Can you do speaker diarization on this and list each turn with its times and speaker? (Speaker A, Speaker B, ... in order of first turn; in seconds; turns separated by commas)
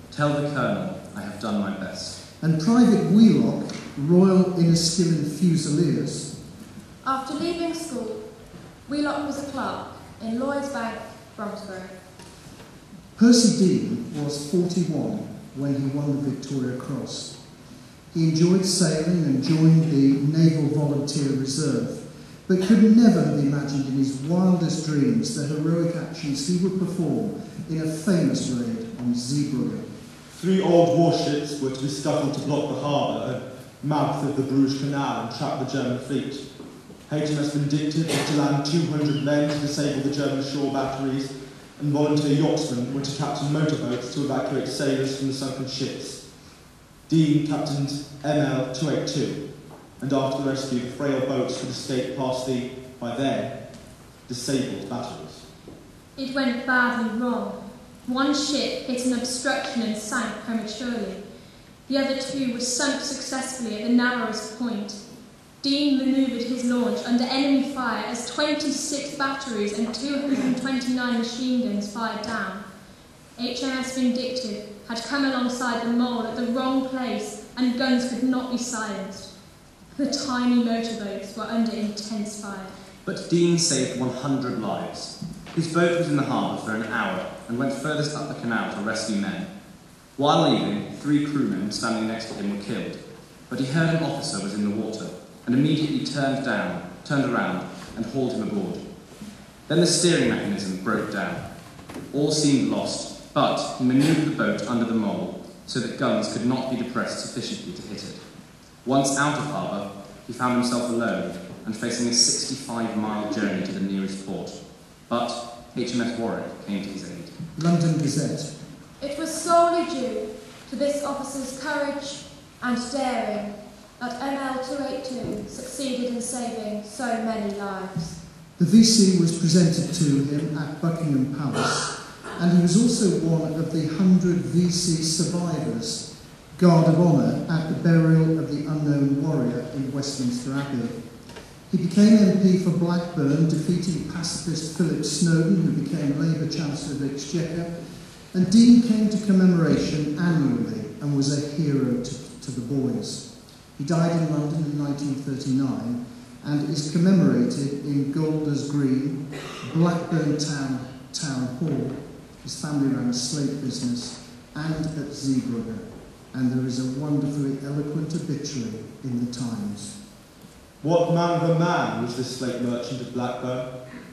Speaker A: 0.1-2.1, Speaker B: 2.4-6.3, Speaker C: 7.0-8.2, Speaker C: 8.9-11.9, Speaker B: 13.2-17.4, Speaker B: 18.1-29.9, Speaker D: 30.3-36.4, Speaker D: 37.1-46.2, Speaker D: 47.1-49.4, Speaker D: 50.0-53.6, Speaker D: 54.3-55.4, Speaker E: 56.1-61.2, Speaker E: 61.9-65.0, Speaker E: 65.6-72.6, Speaker E: 73.3-79.3, Speaker E: 79.9-82.7, Speaker A: 83.0-89.5, Speaker A: 90.2-98.8, Speaker A: 99.7-101.4, Speaker A: 102.1-108.2, Speaker A: 108.8-114.5, Speaker A: 115.1-117.3, Speaker B: 117.6-118.5, Speaker C: 119.0-128.2, Speaker B: 128.6-141.0, Speaker B: 141.7-147.7, Speaker B: 148.3-169.9, Speaker D: 170.8-173.7